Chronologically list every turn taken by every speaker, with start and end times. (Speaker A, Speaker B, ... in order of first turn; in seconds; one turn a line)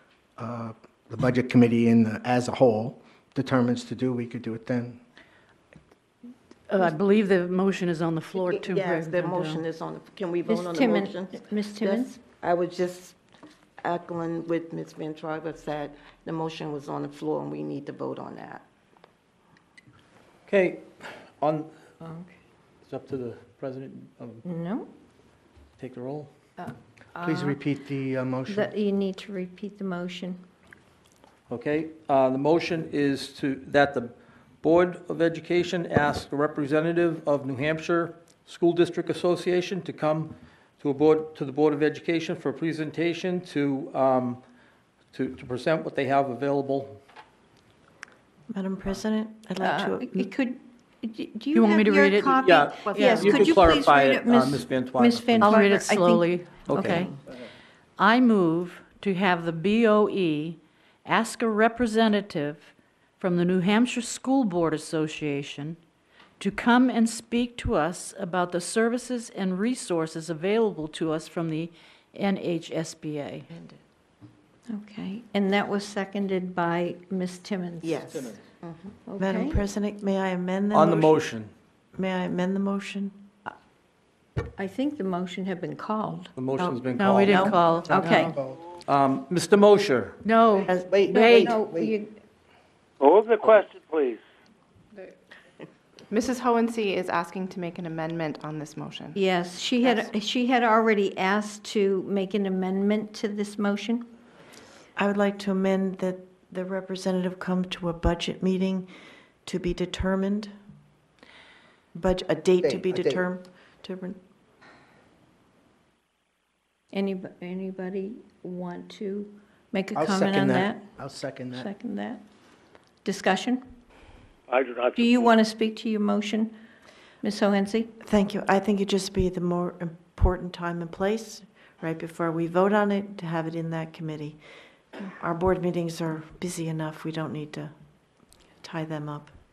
Speaker A: 0.4-5.0
Speaker B: 6.7-9.7
Speaker C: 8.4-13.2
Speaker D: 10.5-12.2
Speaker C: 13.8-18.6
Speaker E: 20.4-21.7
Speaker D: 22.0-22.3
Speaker E: 22.8-24.4
Speaker D: 24.4-24.9
Speaker E: 25.8-26.3
Speaker D: 26.6-27.6
Speaker A: 27.2-28.7
Speaker D: 28.5-30.4
Speaker E: 31.5-44.4
Speaker E: 45.1-47.0
Speaker F: 48.5-50.3
Speaker D: 49.6-56.5
Speaker B: 51.5-53.3
Speaker E: 52.4-55.5
Speaker G: 53.4-54.2
Speaker B: 55.4-57.2
Speaker E: 56.7-57.0
Speaker B: 58.0-65.8
Speaker B: 66.4-73.5
Speaker C: 73.5-73.8
Speaker D: 74.7-78.4
Speaker C: 77.8-78.9
Speaker D: 79.0-79.6
Speaker F: 79.2-81.3
Speaker E: 80.7-81.5
Speaker F: 81.9-83.2
Speaker D: 84.5-86.3
Speaker E: 86.4-87.5
Speaker F: 86.6-87.5
Speaker B: 87.0-88.3
Speaker A: 87.8-88.6
Speaker D: 87.9-88.3
Speaker E: 88.8-90.2
Speaker B: 90.2-91.5
Speaker A: 90.7-91.9
Speaker D: 91.1-92.1
Speaker G: 93.0-94.2
Speaker H: 96.1-99.2
Speaker D: 99.1-104.0
Speaker H: 99.8-100.1
Speaker F: 105.0-108.9
Speaker F: 109.4-110.5
Speaker F: 111.9-114.2
Speaker A: 112.6-113.2
Speaker D: 116.9-120.9
Speaker A: 120.0-121.7
Speaker D: 121.5-122.2
Speaker D: 123.0-123.6
Speaker G: 124.5-125.1
Speaker D: 125.0-126.6
Speaker D: 127.2-127.9
Speaker F: 128.0-134.4
Speaker F: 135.2-139.4